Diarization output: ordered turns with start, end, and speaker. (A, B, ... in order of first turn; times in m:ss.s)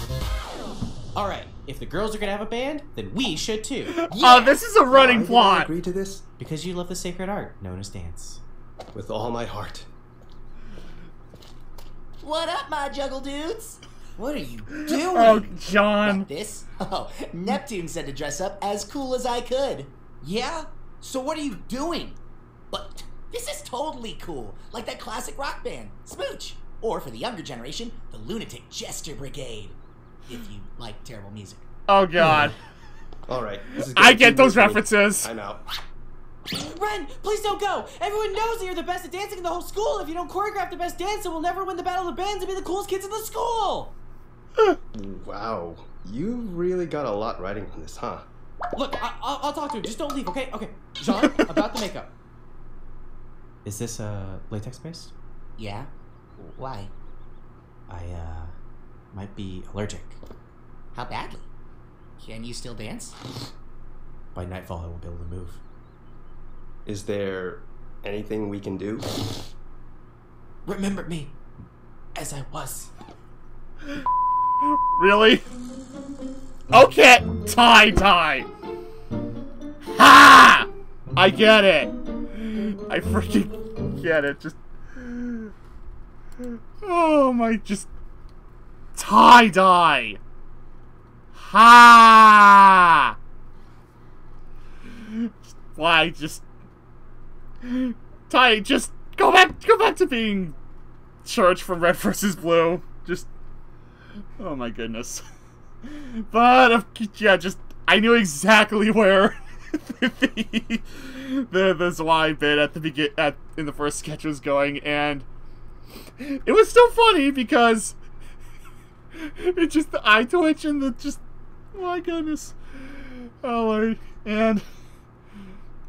0:01.1-0:04.1 A
0:03.9-0:05.7 B
0:04.1-0:04.6 C
0:04.9-0:06.2 D
0:06.4-0:08.4 A
0:08.9-0:09.9 D
0:12.2-0:22.2 C
0:14.7-0:16.3 B
0:22.7-0:31.6 C
0:31.9-0:32.5 B
0:33.3-0:35.6 D
0:34.0-0:35.3 B
0:36.5-0:43.9 A
0:44.9-0:48.3 D
0:48.7-0:52.1 A
0:53.6-0:55.1 A
0:55.6-0:56.9 C
0:57.9-0:58.6 A
0:59.1-1:00.2 A
1:00.9-1:01.5 C
1:02.2-1:03.2 C
1:04.3-1:05.6 A
1:06.8-1:09.1 D
1:10.6-1:11.4 A
1:12.1-1:12.9 A
1:14.7-1:15.4 B
1:16.7-1:18.5 B
1:19.9-1:25.5 B
1:26.4-1:27.9 B
1:28.9-1:30.2 B
1:31.3-1:33.1 B
1:34.9-1:36.4 B
1:37.6-1:40.6 B
1:41.2-1:43.3 B
1:44.4-1:45.2 B
1:45.8-1:55.2 B
1:56.2-1:58.0 B
1:59.2-2:01.2 B
2:01.7-2:04.6 B